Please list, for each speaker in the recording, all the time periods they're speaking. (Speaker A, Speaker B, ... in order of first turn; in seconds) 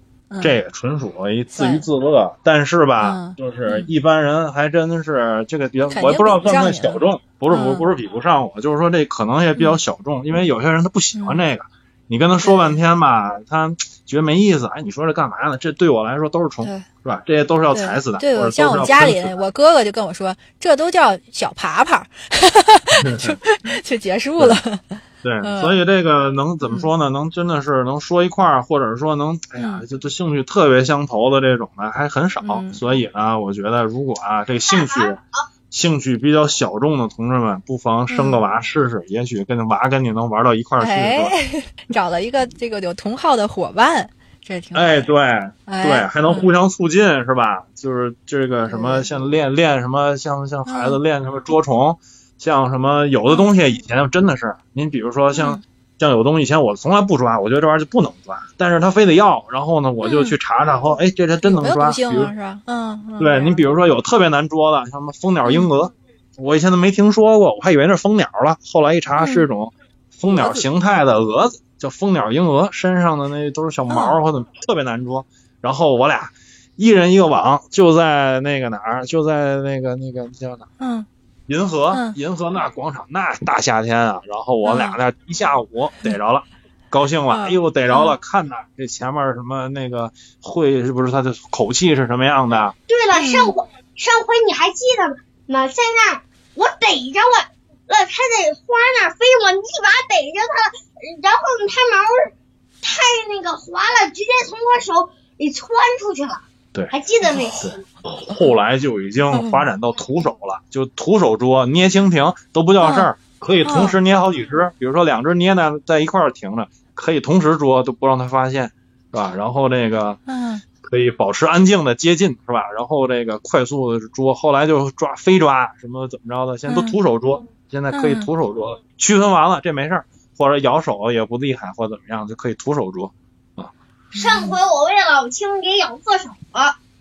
Speaker A: 0.3-0.6, 1.5-1.9, 3.0-3.9, 5.8-7.9, 9.5-9.8, 11.1-11.4, 12.4-12.8, 16.6-16.9, 17.7-25.8, 26.6-26.9, 29.6-29.8, 32.4-32.8, 38.1-38.4, 40.8-45.1, 45.7-46.5, 48.6-49.1, 50.6-51.0, 53.3-53.5, 55.3-55.6, 60.0-60.3, 61.4-63.7, 65.4-65.7, 69.2-69.5, 70.3-70.6, 73.9-74.2, 80.8-81.1, 81.9-82.2, 84.6-85.0, 87.3-88.2, 93.1-93.5, 109.3-109.7, 112.8-113.1, 113.6-114.0, 120.3-120.6, 126.7-127.0, 127.9-128.3, 134.1-134.6
Speaker B: 0.4-19.4, 23.0-23.4, 25.2-35.2, 35.7-41.4, 44.7-62.3, 63.2-80.6, 81.5-92.7, 107.6-120.2, 120.8-133.7
Speaker C: 34.7-35.4, 92.9-107.7, 134.1-136.7